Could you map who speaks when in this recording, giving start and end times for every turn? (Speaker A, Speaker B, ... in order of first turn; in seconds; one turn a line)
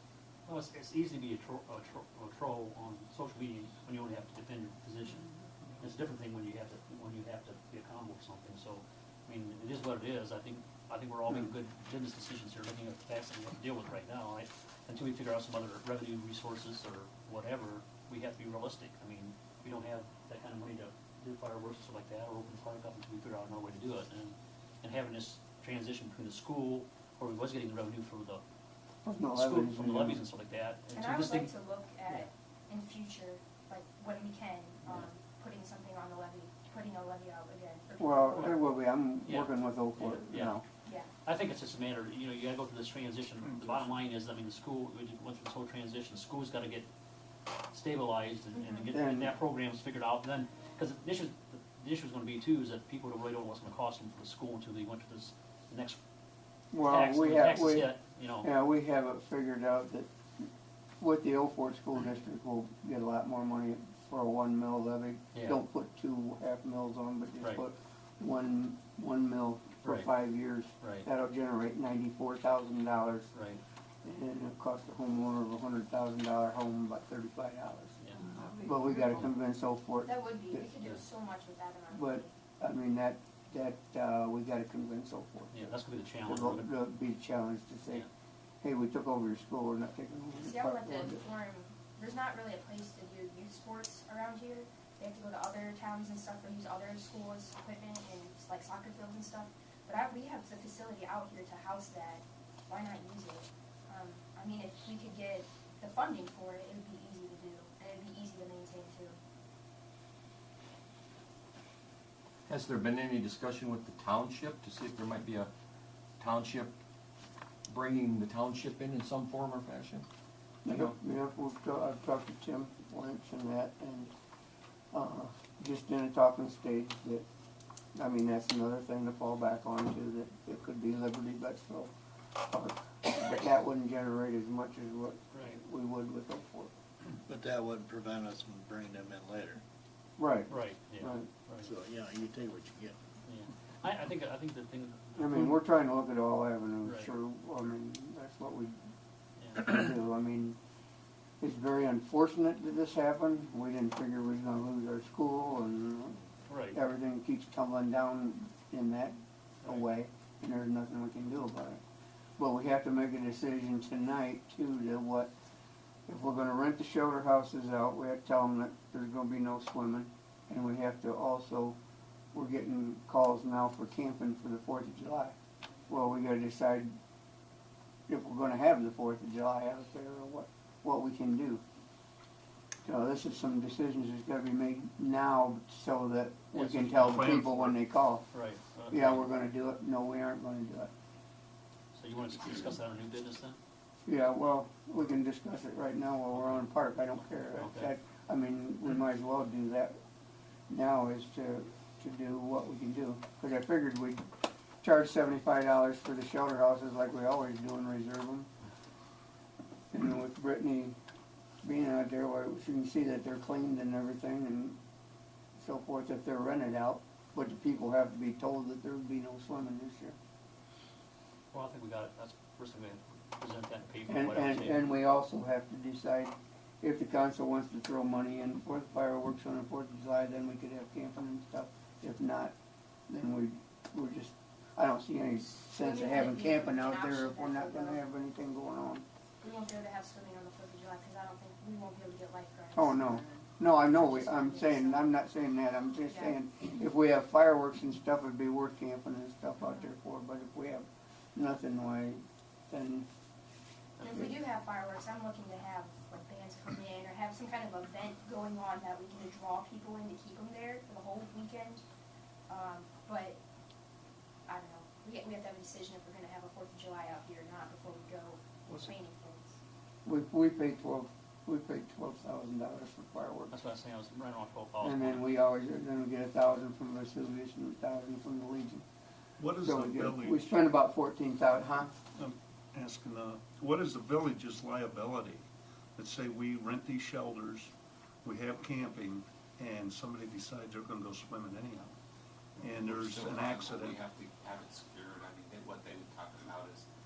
Speaker A: 0.5-5.2
Speaker A: 5.8-28.4
Speaker B: 29.0-30.2
Speaker A: 29.3-31.5
Speaker C: 30.9-38.6
Speaker B: 38.0-40.6
Speaker A: 39.2-40.6
Speaker A: 41.2-46.9
Speaker A: 47.7-56.0
Speaker C: 48.5-48.9
Speaker B: 48.9-49.3
Speaker B: 56.7-60.1
Speaker A: 56.8-58.5
Speaker B: 61.0-73.3
Speaker A: 69.8-70.1
Speaker A: 70.8-71.1
Speaker A: 73.3-73.6
Speaker B: 74.0-78.0
Speaker B: 78.6-80.6
Speaker C: 80.0-82.3
Speaker B: 81.9-85.7
Speaker A: 85.5-86.7
Speaker B: 86.2-88.0
Speaker B: 88.6-91.2
Speaker C: 90.4-109.2
Speaker D: 112.5-115.5
Speaker D: 116.2-116.7
Speaker D: 117.7-120.0
Speaker B: 120.6-124.1
Speaker B: 124.9-127.2
Speaker B: 127.9-131.9
Speaker B: 132.5-136.7
Speaker A: 135.3-135.6
Speaker E: 137.2-139.6
Speaker B: 140.2-141.3
Speaker A: 140.5-141.7
Speaker E: 141.6-143.0
Speaker A: 143.2-145.5
Speaker B: 145.2-148.8
Speaker A: 146.8-147.1
Speaker A: 149.4-149.6
Speaker B: 149.5-150.6
Speaker B: 151.4-156.2
Speaker A: 156.5-156.8
Speaker B: 156.7-161.8
Speaker B: 162.4-165.3
Speaker B: 166.1-171.8
Speaker B: 172.3-175.3
Speaker B: 175.9-176.9
Speaker B: 178.1-181.6
Speaker B: 182.8-188.2
Speaker A: 186.5-187.4
Speaker F: 187.0-187.7
Speaker A: 188.3-189.2
Speaker B: 188.9-190.9
Speaker A: 191.9-193.6
Speaker B: 194.1-199.9
Speaker A: 197.6-197.9
Speaker B: 200.7-204.2
Speaker B: 204.8-208.5
Speaker B: 209.9-210.9
Speaker B: 211.6-214.8
Speaker B: 215.6-220.2
Speaker A: 221.5-224.8
Speaker B: 224.1-232.5
Speaker B: 233.1-239.0
Speaker C: 235.8-238.0
Speaker C: 239.4-245.1
Speaker B: 242.7-253.1
Speaker C: 246.1-246.4
Speaker C: 249.6-249.9
Speaker C: 254.0-261.8
Speaker C: 262.5-263.4
Speaker C: 264.5-269.6
Speaker B: 270.0-273.5
Speaker A: 273.5-275.2
Speaker B: 274.8-278.8
Speaker F: 279.4-280.4
Speaker B: 279.6-281.9
Speaker F: 282.1-285.4
Speaker F: 285.9-287.7
Speaker F: 288.2-291.9
Speaker F: 292.6-294.0
Speaker G: 293.0-296.8